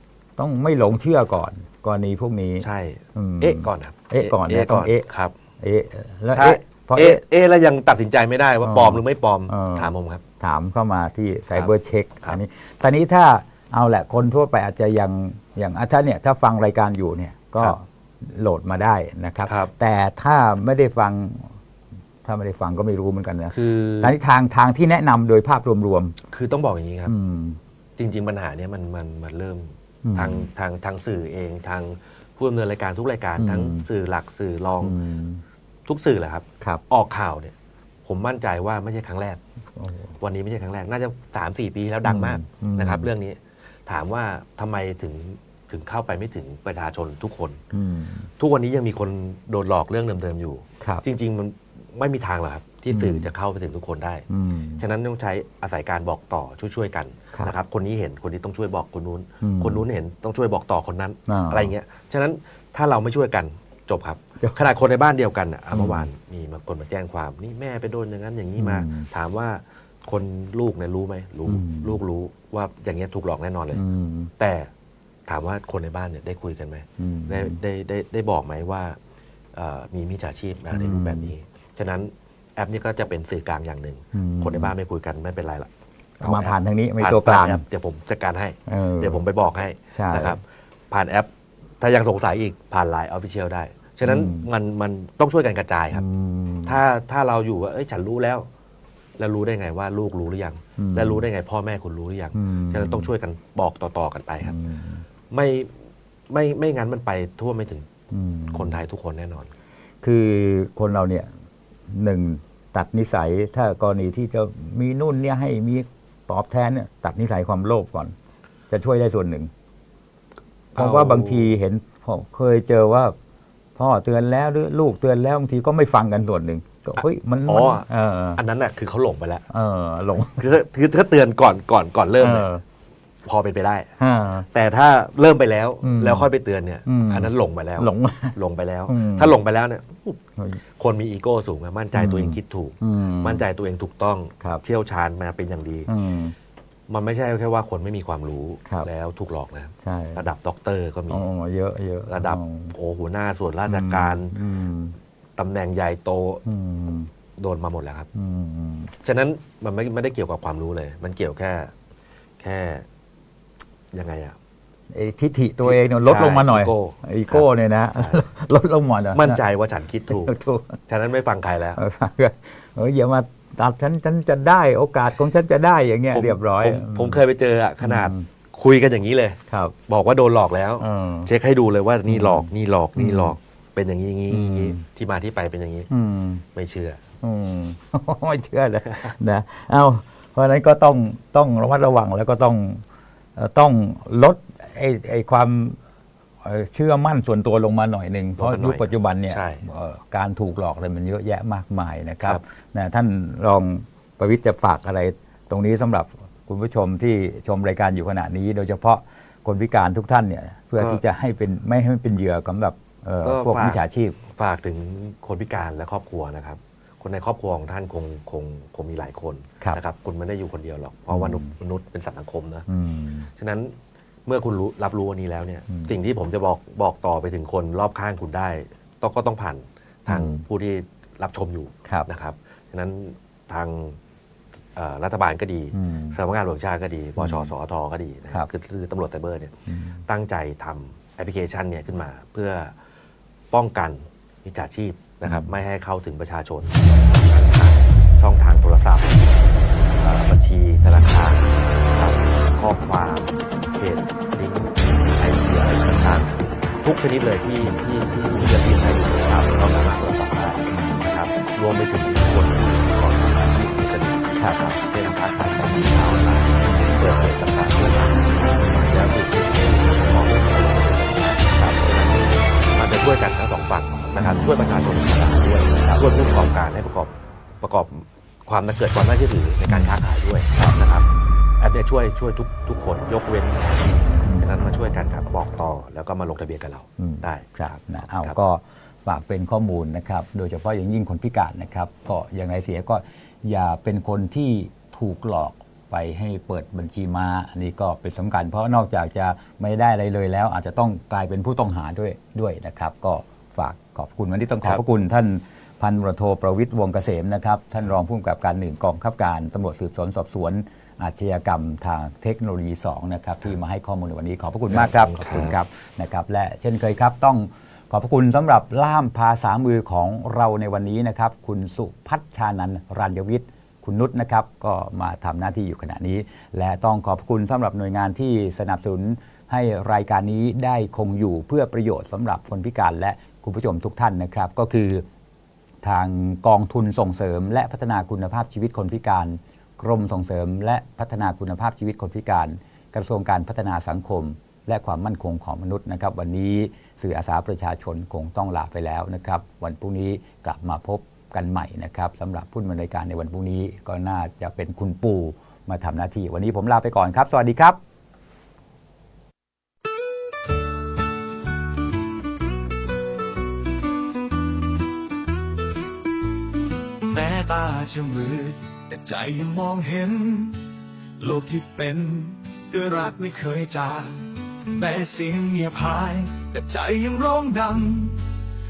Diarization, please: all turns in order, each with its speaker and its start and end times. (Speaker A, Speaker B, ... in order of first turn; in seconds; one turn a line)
Speaker A: 0.4-5.0
Speaker B: 2.6-5.3
Speaker A: 5.6-7.2
Speaker B: 6.3-10.2
Speaker A: 8.6-21.5
Speaker B: 19.4-19.7
Speaker A: 22.2-26.1
Speaker B: 23.5-24.1
Speaker B: 26.3-27.1
Speaker A: 27.1-27.6
Speaker B: 28.0-35.0
Speaker A: 30.0-30.5
Speaker A: 33.4-33.8
Speaker A: 34.8-35.4
Speaker B: 35.9-37.5
Speaker B: 38.0-39.4
Speaker A: 39.8-40.1
Speaker B: 40.2-47.6
Speaker A: 42.0-43.1
Speaker A: 47.7-48.3
Speaker B: 48.4-54.2
Speaker A: 52.9-53.3
Speaker A: 54.3-54.8
Speaker B: 54.8-73.8
Speaker A: 59.4-59.8
Speaker A: 61.3-61.7
Speaker A: 65.7-66.1
Speaker A: 68.6-69.1
Speaker A: 71.5-72.0
Speaker A: 73.7-74.3
Speaker B: 74.4-74.7
Speaker B: 75.3-79.0
Speaker A: 77.0-77.6
Speaker B: 79.5-85.7
Speaker A: 80.7-81.3
Speaker A: 84.1-84.7
Speaker A: 86.2-87.6
Speaker B: 86.2-91.3
Speaker A: 88.7-89.2
Speaker A: 89.9-90.4
Speaker B: 91.8-96.0
Speaker A: 94.0-94.5
Speaker A: 95.9-96.8
Speaker B: 96.7-98.5
Speaker B: 99.2-104.6
Speaker A: 100.8-101.2
Speaker A: 102.3-103.1
Speaker A: 104.4-105.0
Speaker B: 105.3-105.7
Speaker B: 106.3-107.9
Speaker A: 108.1-108.8
Speaker B: 108.5-109.5
Speaker A: 110.0-111.3
Speaker A: 111.9-118.1
Speaker A: 118.7-119.5
Speaker B: 120.7-121.5
Speaker A: 120.7-123.1
Speaker A: 123.8-128.4
Speaker B: 127.0-129.5
Speaker A: 129.5-130.5
Speaker B: 130.4-132.5
Speaker A: 132.2-132.6
Speaker B: 133.2-133.9
Speaker A: 134.0-134.5
Speaker B: 134.5-140.2
Speaker A: 135.8-136.3
Speaker A: 136.8-138.3
Speaker A: 138.9-139.4
Speaker B: 140.8-145.9
Speaker A: 141.9-143.4
Speaker A: 145.9-146.3
Speaker B: 146.9-151.2
Speaker A: 149.8-150.2
Speaker A: 151.1-152.7
Speaker B: 152.1-154.3
Speaker A: 153.7-154.9
Speaker B: 155.4-156.4
Speaker A: 156.4-157.1
Speaker B: 157.4-158.1
Speaker A: 158.1-158.9
Speaker B: 159.0-161.7
Speaker B: 162.4-162.8
Speaker B: 163.9-164.3
Speaker A: 164.9-169.4
Speaker B: 165.6-168.2
Speaker B: 169.1-170.3
Speaker A: 170.1-170.8
Speaker B: 170.9-171.8
Speaker A: 171.8-177.2
Speaker B: 176.1-185.9
Speaker A: 177.8-178.3
Speaker A: 179.5-179.7
Speaker A: 180.8-181.3
Speaker A: 182.1-183.3
Speaker A: 184.3-184.8
Speaker A: 185.9-186.4
Speaker B: 186.5-187.0
Speaker A: 187.2-192.8
Speaker B: 188.9-189.1
Speaker A: 193.3-195.8
Speaker A: 196.4-214.2
Speaker B: 198.4-199.6
Speaker B: 213.2-222.7
Speaker A: 221.1-221.5
Speaker A: 222.7-223.3
Speaker B: 223.4-223.7
Speaker B: 224.2-234.0
Speaker A: 230.1-230.4
Speaker B: 234.7-239.5
Speaker A: 235.7-236.2
Speaker A: 237.2-237.5
Speaker A: 239.7-240.0
Speaker B: 240.1-242.7
Speaker B: 243.5-249.5
Speaker A: 245.2-245.5
Speaker B: 250.0-281.1
Speaker A: 260.7-261.1
Speaker A: 274.2-274.4
Speaker A: 279.7-279.9
Speaker B: 281.6-288.4
Speaker A: 284.2-284.5
Speaker A: 287.0-335.1
Speaker B: 314.7-315.6
Speaker A: 335.8-357.8
Speaker C: 367.1-378.3